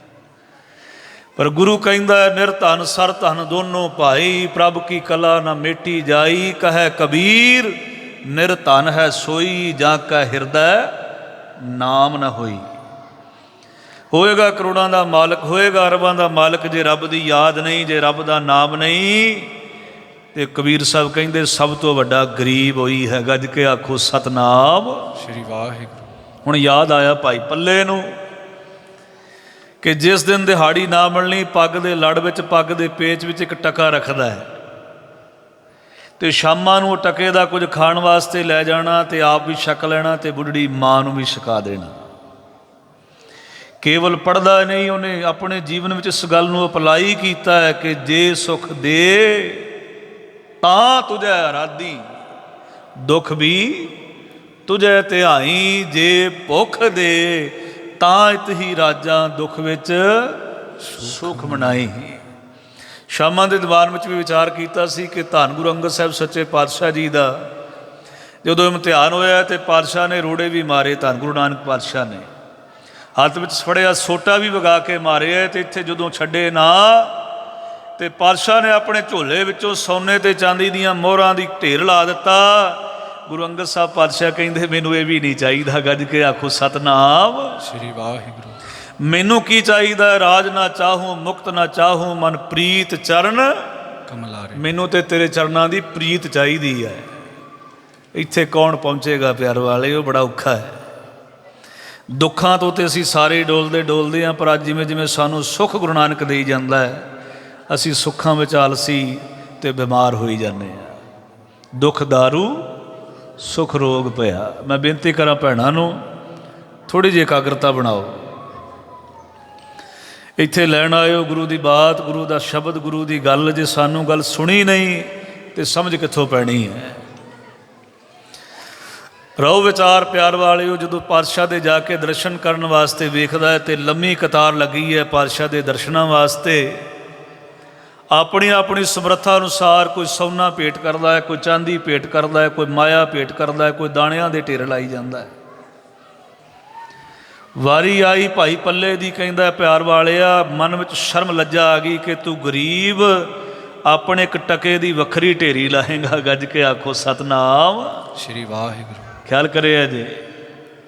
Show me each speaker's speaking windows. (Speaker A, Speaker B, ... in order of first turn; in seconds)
Speaker A: 1.4-7.7, 8.2-10.9, 11.6-12.7, 14.1-19.5, 20.3-25.1, 26.4-28.1, 29.8-34.5, 36.2-42.0, 43.8-49.7, 50.6-52.0, 53.0-53.9, 54.7-60.4, 61.0-62.2, 63.1-67.3, 68.4-72.3, 73.2-77.2, 78.0-87.6, 89.0-93.7, 94.6-97.1, 98.1-100.8, 102.1-107.0, 107.7-111.0, 111.8-112.7, 113.4-116.0, 116.9-118.3, 120.4-127.0, 129.4-136.8, 138.1-145.3, 147.6-153.3, 153.9-158.0, 159.3-160.2
Speaker B: 25.2-26.1, 60.8-61.8, 87.6-88.6, 94.1-94.7, 158.2-159.2